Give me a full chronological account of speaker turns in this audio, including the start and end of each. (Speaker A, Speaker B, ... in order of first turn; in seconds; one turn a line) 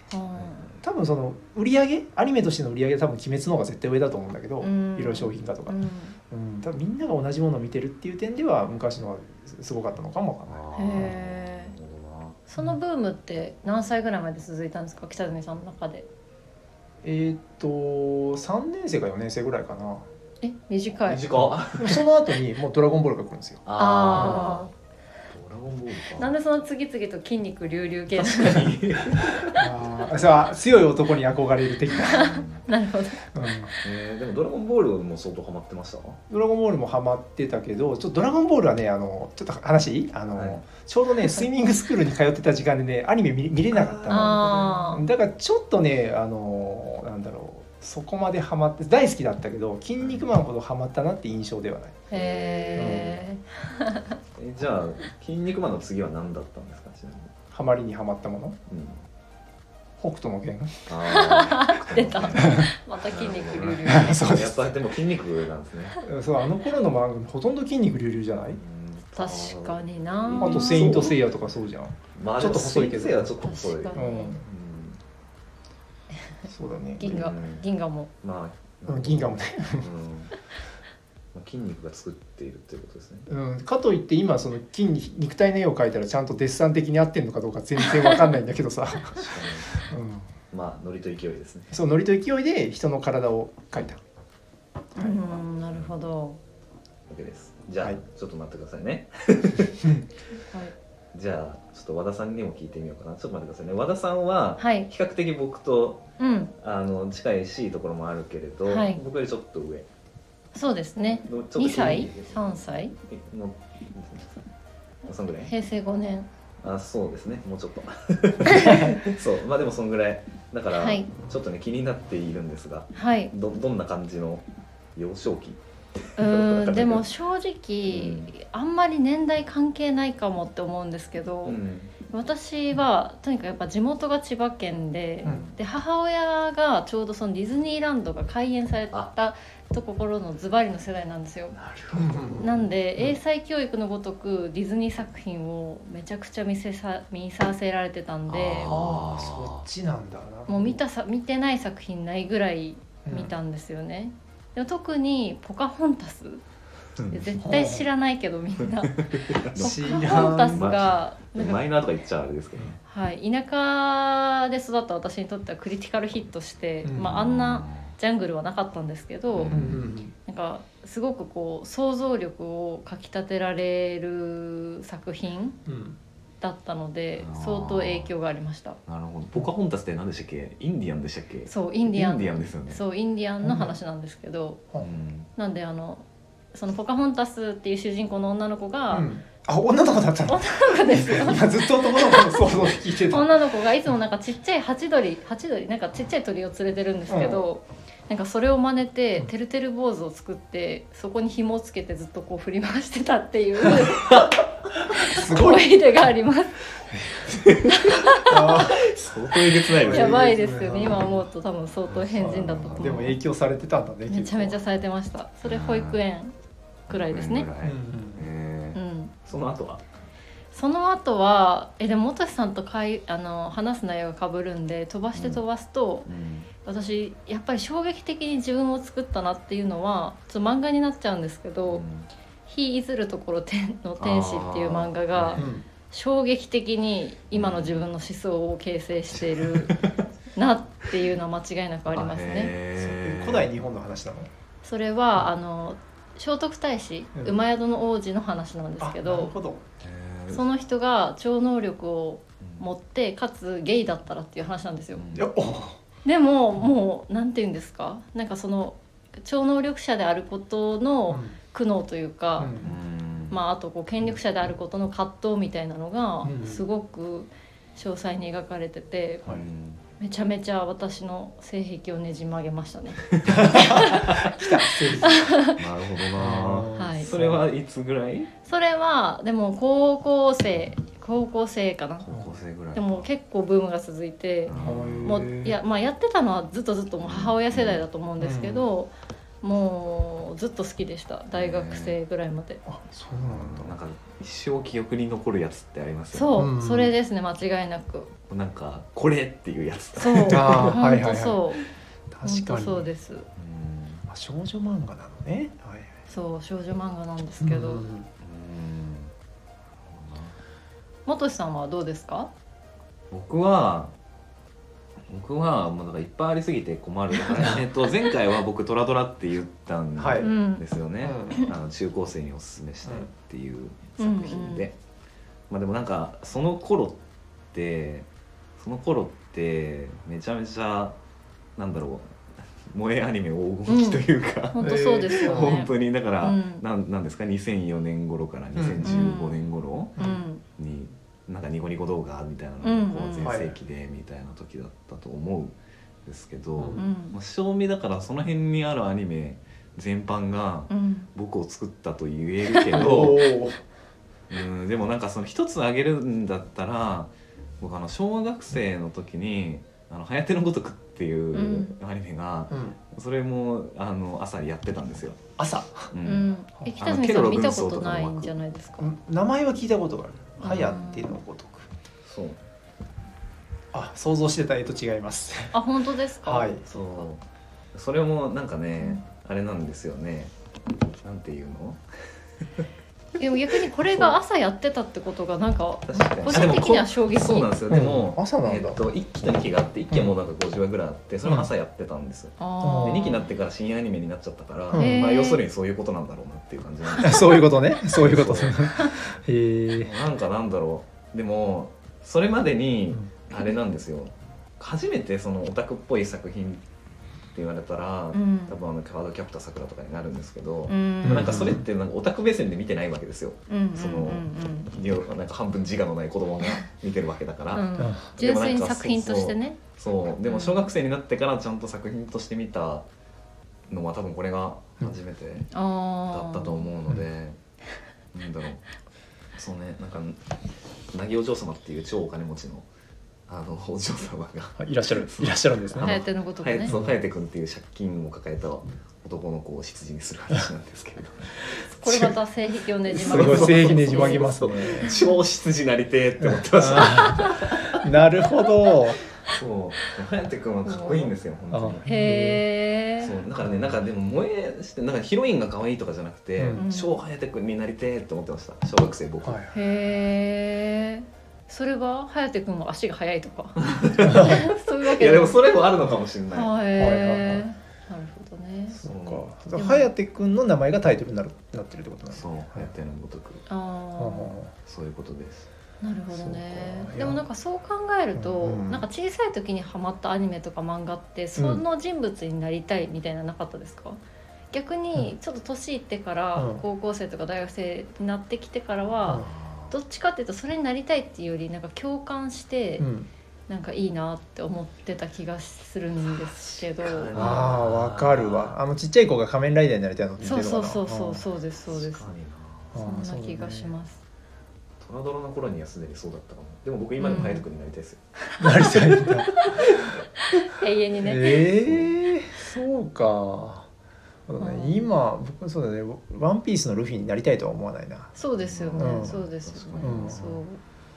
Speaker A: 0.1-0.7
Speaker B: 0.4-0.8
Speaker C: 0.8-5.8
Speaker A: 4.6-6.2
Speaker C: 6.3-11.2
Speaker B: 10.5-12.4
Speaker A: 10.8-11.8
Speaker A: 12.5-16.1
Speaker C: 17.0-20.1
Speaker A: 20.4-21.2
Speaker B: 21.0-22.0
Speaker C: 21.3-24.5
Speaker B: 23.6-24.7
Speaker A: 23.8-24.7
Speaker B: 25.3-26.4
Speaker A: 26.1-28.8
Speaker B: 28.1-29.7
Speaker C: 29.6-32.3
Speaker B: 31.9-32.7
Speaker A: 32.0-33.2
Speaker C: 33.3-33.7
Speaker B: 33.8-36.2
Speaker C: 36.3-52.0
Speaker B: 40.3-40.6
Speaker B: 43.7-44.9
Speaker A: 44.1-45.0
Speaker B: 50.0-50.3
Speaker A: 52.1-54.1
Speaker B: 52.1-53.2
Speaker C: 52.8-53.2
Speaker B: 54.4-57.3
Speaker C: 57.5-58.6
Speaker B: 58.7-59.0
Speaker C: 60.0-60.9
Speaker B: 60.9-66.0
Speaker A: 61.1-64.4
Speaker C: 62.3-62.7
Speaker C: 63.9-64.8
Speaker C: 66.0-68.6
Speaker B: 68.5-71.4
Speaker A: 69.2-71.2
Speaker C: 70.4-73.4
Speaker B: 72.2-75.0
Speaker A: 73.4-74.4
Speaker C: 73.9-74.5
Speaker C: 76.5-77.3
Speaker A: 77.0-78.1
Speaker B: 77.0-77.7
Speaker B: 78.2-80.3
Speaker C: 78.9-79.9
Speaker B: 81.3-83.3
Speaker C: 83.3-90.3
Speaker A: 87.9-88.3
Speaker B: 89.1-89.9
Speaker B: 90.5-91.7
Speaker C: 91.7-94.0
Speaker A: 95.0-96.4
Speaker B: 95.2-95.9
Speaker B: 97.1-99.9
Speaker A: 100.5-100.7
Speaker B: 101.1-106.0
Speaker A: 104.6-104.9
Speaker A: 106.2-106.5
Speaker B: 106.6-109.9
Speaker A: 108.7-109.0
Speaker A: 110.5-112.9
Speaker B: 111.0-114.4
Speaker B: 115.0-115.5
Speaker A: 115.4-116.3
Speaker B: 116.6-125.6
Speaker A: 120.7-121.1
Speaker A: 122.9-123.3
Speaker B: 126.1-127.1
Speaker A: 126.2-141.6
Speaker B: 127.9-128.3
Speaker B: 131.4-131.9
Speaker B: 135.2-135.6
Speaker B: 141.6-142.6
Speaker C: 141.9-143.2
Speaker A: 142.4-148.8
Speaker B: 148.3-149.7
Speaker C: 148.6-150.8
Speaker A: 150.5-156.4
Speaker C: 153.1-153.3
Speaker A: 157.1-161.6
Speaker C: 157.4-157.9
Speaker B: 159.1-162.8
Speaker C: 159.6-160.7
Speaker A: 162.8-175.6
Speaker C: 166.8-167.2
Speaker B: 167.0-167.9
Speaker B: 169.3-169.9
Speaker C: 169.5-170.1
Speaker C: 175.7-176.0
Speaker A: 176.4-178.8
Speaker B: 177.2-178.1
Speaker B: 178.9-182.8
Speaker A: 181.5-184.6
Speaker C: 183.4-183.8
Speaker B: 184.8-185.3
Speaker A: 185.4-189.1
Speaker C: 188.9-193.4
Speaker A: 190.3-204.2
Speaker B: 192.5-192.8
Speaker C: 197.1-197.4
Speaker B: 203.9-204.3
Speaker A: 205.0-206.6
Speaker C: 205.1-205.7
Speaker C: 206.9-207.3
Speaker B: 207.3-207.9
Speaker A: 207.7-208.5
Speaker C: 208.2-208.8
Speaker B: 208.6-210.2
Speaker C: 209.8-211.1
Speaker A: 209.8-213.2
Speaker B: 210.9-211.2
Speaker B: 211.9-213.2
Speaker C: 212.2-214.6
Speaker A: 214.1-216.3
Speaker B: 215.4-216.0
Speaker A: 216.9-217.5
Speaker B: 216.9-219.8
Speaker C: 217.6-218.3
Speaker A: 218.7-219.1
Speaker A: 220.5-226.1
Speaker B: 225.1-225.4
Speaker B: 226.1-226.5
Speaker A: 226.6-231.8
Speaker B: 231.7-232.1
Speaker A: 232.5-239.8
Speaker B: 234.0-235.5
Speaker C: 235.4-235.7
Speaker B: 237.3-237.8
Speaker B: 239.2-239.9
Speaker A: 240.4-242.5
Speaker B: 241.9-243.5
Speaker C: 242.8-244.3
Speaker A: 244.6-249.3
Speaker C: 247.2-247.4
Speaker C: 248.8-249.6
Speaker B: 249.8-250.5
Speaker A: 250.3-255.2
Speaker B: 254.9-255.6
Speaker C: 255.2-255.8
Speaker A: 256.0-262.6
Speaker C: 261.1-261.4
Speaker C: 262.4-262.8
Speaker B: 262.6-263.4
Speaker A: 263.3-269.3
Speaker C: 266.2-266.6
Speaker B: 269.3-269.8
Speaker A: 270.0-274.3
Speaker C: 273.3-275.3
Speaker A: 275.0-275.6
Speaker B: 275.6-278.3
Speaker C: 276.2-277.4
Speaker A: 276.7-277.1
Speaker A: 278.4-282.1
Speaker B: 282.0-283.1
Speaker A: 282.7-292.6
Speaker B: 284.5-285.2
Speaker C: 284.6-285.6
Speaker B: 287.0-287.9
Speaker C: 288.2-288.7
Speaker B: 291.3-292.0
Speaker C: 292.6-293.8
Speaker B: 293.2-296.4
Speaker A: 296.1-298.1
Speaker C: 296.4-296.9
Speaker B: 298.3-300.8
Speaker A: 300.0-301.6
Speaker C: 300.3-301.4
Speaker C: 302.1-302.9
Speaker A: 302.2-303.3
Speaker B: 303.4-304.1
Speaker C: 304.1-306.0
Speaker A: 306.1-307.9
Speaker C: 307.4-308.1
Speaker B: 308.2-309.1
Speaker B: 309.8-310.4
Speaker A: 311.1-312.3
Speaker B: 313.1-313.9
Speaker B: 315.1-324.8
Speaker C: 317.3-317.6
Speaker C: 320.0-320.3
Speaker A: 320.2-320.6
Speaker C: 321.0-321.5
Speaker C: 322.8-323.1
Speaker A: 324.0-324.7
Speaker B: 325.5-327.0
Speaker B: 327.5-328.1
Speaker B: 328.6-331.0
Speaker B: 331.6-353.3
Speaker A: 333.7-336.6
Speaker C: 334.6-335.7
Speaker C: 338.6-339.1
Speaker A: 338.8-340.4
Speaker C: 340.0-340.2
Speaker A: 342.6-343.4
Speaker C: 343.2-343.6
Speaker C: 346.6-346.9
Speaker A: 346.8-347.2
Speaker A: 350.7-351.1
Speaker C: 352.7-353.6
Speaker B: 354.3-365.2
Speaker A: 361.3-361.8
Speaker C: 362.5-362.8
Speaker C: 365.4-365.9
Speaker B: 365.9-368.4
Speaker A: 366.1-368.9
Speaker C: 368.8-371.7
Speaker A: 370.4-371.2
Speaker B: 370.4-370.8
Speaker B: 372.0-372.4
Speaker C: 373.7-375.6
Speaker A: 375.5-377.1
Speaker C: 376.2-376.6
Speaker B: 376.7-377.2
Speaker B: 377.7-380.3
Speaker B: 381.0-381.8
Speaker A: 383.2-387.5
Speaker B: 383.2-384.2
Speaker B: 385.9-398.9
Speaker C: 386.2-386.6
Speaker C: 387.7-388.8
Speaker C: 389.9-390.2
Speaker C: 391.2-391.5
Speaker A: 392.4-393.2
Speaker C: 392.6-393.1
Speaker C: 394.7-395.1
Speaker A: 394.8-395.4
Speaker C: 396.9-399.9
Speaker B: 399.8-406.6
Speaker B: 407.3-422.9
Speaker A: 408.1-408.6
Speaker A: 410.7-411.5
Speaker C: 411.0-411.6
Speaker A: 413.5-414.7
Speaker A: 417.5-419.7
Speaker C: 417.8-418.1
Speaker A: 420.2-420.7
Speaker B: 423.7-425.5
Speaker A: 425.5-426.7
Speaker B: 426.1-427.4
Speaker B: 428.1-428.7
Speaker B: 429.4-430.2
Speaker B: 430.9-432.7
Speaker B: 433.3-441.6
Speaker C: 434.6-436.0
Speaker A: 435.8-436.8
Speaker C: 436.7-437.0
Speaker A: 441.7-445.2
Speaker C: 441.9-442.1
Speaker B: 442.9-447.7
Speaker C: 442.9-444.9
Speaker C: 446.2-449.0
Speaker B: 449.3-451.9
Speaker A: 450.6-451.1
Speaker C: 451.5-452.4
Speaker A: 451.9-453.1
Speaker B: 453.0-459.4
Speaker C: 453.4-453.9
Speaker C: 456.4-456.6
Speaker A: 456.6-456.9
Speaker C: 459.2-459.6
Speaker A: 459.5-465.4
Speaker B: 463.6-466.5
Speaker C: 464.0-464.4
Speaker A: 466.3-468.8
Speaker C: 466.8-467.5
Speaker C: 468.7-472.7
Speaker B: 468.8-469.3
Speaker A: 469.5-469.9
Speaker B: 472.1-473.4
Speaker A: 473.5-474.4
Speaker C: 474.0-474.5
Speaker B: 474.6-475.4
Speaker A: 475.8-484.0
Speaker C: 476.1-477.2
Speaker C: 478.1-478.9
Speaker C: 481.4-481.6
Speaker A: 484.5-492.9
Speaker C: 486.4-486.6
Speaker B: 489.1-489.8
Speaker C: 492.8-493.1
Speaker A: 493.5-497.2
Speaker B: 496.4-498.6
Speaker C: 497.1-501.2
Speaker A: 500.2-502.1
Speaker B: 501.7-502.8
Speaker C: 502.7-503.8
Speaker A: 502.8-504.0
Speaker B: 504.8-508.0
Speaker A: 507.0-507.4
Speaker C: 508.4-509.4
Speaker A: 510.3-511.5
Speaker C: 511.0-513.7
Speaker B: 511.6-512.0
Speaker C: 514.3-518.1
Speaker A: 514.4-514.9
Speaker A: 518.2-520.6
Speaker B: 518.4-520.2
Speaker C: 518.8-519.2
Speaker C: 519.8-520.4